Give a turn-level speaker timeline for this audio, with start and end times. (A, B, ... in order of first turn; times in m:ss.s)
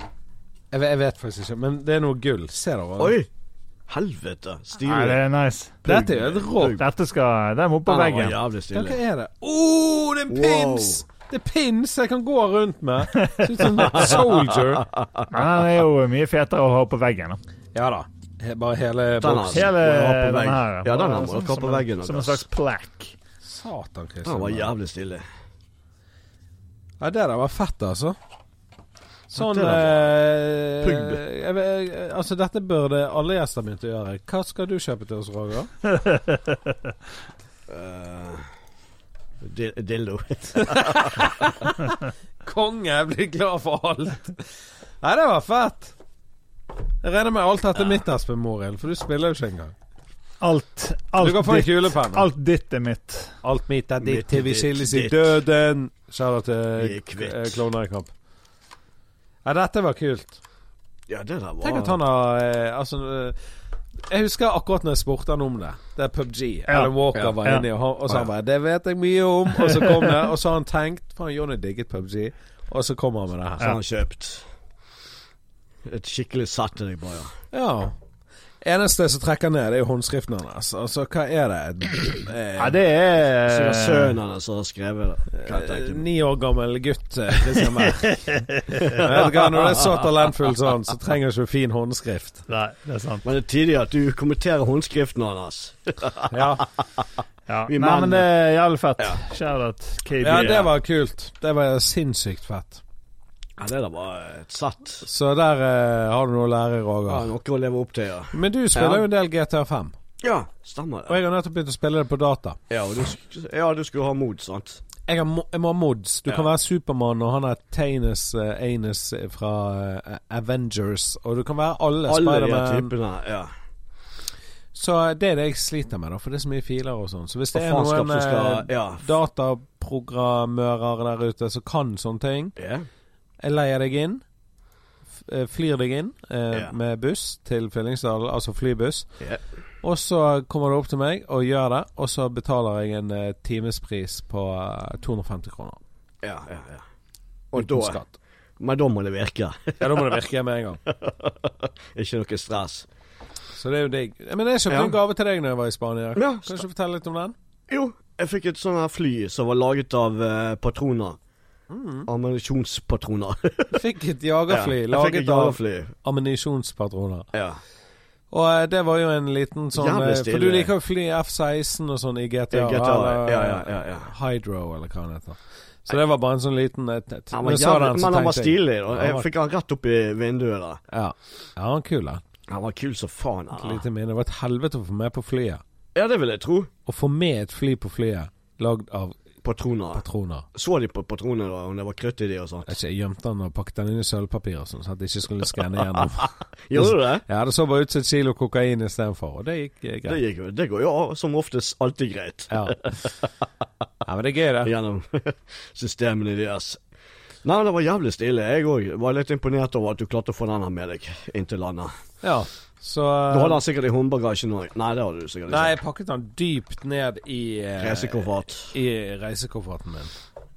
0:00.7-0:03.2 A
0:03.0-0:03.3 B
0:03.9-0:05.2 B
0:04.8-0:05.8 C
0:05.8-0:06.8 B
0:05.9-0:06.8 A
0:06.8-0:08.4 C
0:07.9-0:09.0 B
0:08.7-0:14.8 A
0:10.3-0:11.0 B
0:13.2-0:13.6 C
0:13.7-0:15.3 B
0:15.3-0:17.4 C
0:17.7-0:19.7 A
0:19.2-0:22.4 B
0:19.5-0:23.2 C
0:23.4-0:24.7 A
0:24.2-0:25.2 B
0:27.0-0:28.2 A
0:29.3-0:35.7 A
0:29.4-0:30.0 B
0:30.8-0:31.2 B
0:36.0-0:36.4 C
0:37.7-0:38.5 B
0:39.4-0:41.7 B
0:40.6-0:46.0 A
0:47.0-0:49.7 A
0:50.4-0:53.4 C
0:51.2-0:52.3 A
0:53.4-0:58.1 A
0:54.0-0:55.4 B
0:56.8-0:57.6 B
0:59.4-1:00.4 A
1:01.1-1:02.0 B
1:01.6-1:03.4 A
1:04.1-1:13.8 A
1:06.7-1:07.6 C
1:09.6-1:10.1 C
1:13.6-1:14.5 B
1:15.9-1:17.4 B
1:17.5-1:18.0 A
1:18.6-1:22.8 A
1:22.6-1:24.2 C
1:23.5-1:26.0 B
1:25.3-1:28.2 A
1:27.5-1:29.0 C
1:28.8-1:30.0 B
1:29.0-1:32.4 A
1:32.5-1:33.2 C
1:33.2-1:37.0 B
1:36.3-1:36.6 A
1:37.5-1:40.7 C
1:37.7-1:38.3 B
1:40.2-1:42.8 A
1:40.3-1:40.6 B
1:43.6-1:45.1 B
1:45.0-1:47.3 A
1:47.1-1:49.0 B
1:48.3-1:50.0 A
1:50.2-1:51.2 B
1:51.1-1:52.6 A
1:52.7-1:54.8 B
1:55.1-2:02.9 A
2:02.1-2:03.5 B
2:04.7-2:12.5 A
2:07.5-2:09.1 B
2:12.6-2:12.9 B
2:13.4-2:14.2 A
2:15.2-2:19.1 A
2:19.8-2:25.8 A
2:26.2-2:26.8 B
2:27.5-2:28.0 B
2:27.6-2:28.2 A
2:28.6-2:30.2 B
2:29.8-2:30.8 A
2:30.9-2:32.9 B
2:33.6-2:37.4 A
2:34.7-2:35.0 B
2:36.2-2:36.6 B
2:37.7-2:41.2 B
2:41.7-2:42.1 A
2:42.1-2:43.8 B
2:43.7-2:47.3 A
2:44.5-2:45.9 B
2:47.3-2:47.6 B
2:48.3-2:59.3 A
2:49.7-2:50.7 B
2:52.5-2:54.1 B
2:57.3-3:00.8 B
3:00.9-3:02.2 A
3:02.5-3:03.8 B
3:03.5-3:05.6 A
3:06.0-3:06.7 B
3:06.9-3:09.2 A
3:09.4-3:12.8 B
3:10.0-3:10.5 A
3:12.7-3:20.2 A
3:15.9-3:17.2 B
3:20.1-3:23.4 B
3:22.5-3:22.8 A
3:24.0-3:24.7 A
3:24.6-3:26.8 B
3:27.4-3:31.9 B
3:32.2-3:33.6 A
3:33.3-3:35.8 B
3:35.5-3:40.1 A
3:37.8-3:38.8 B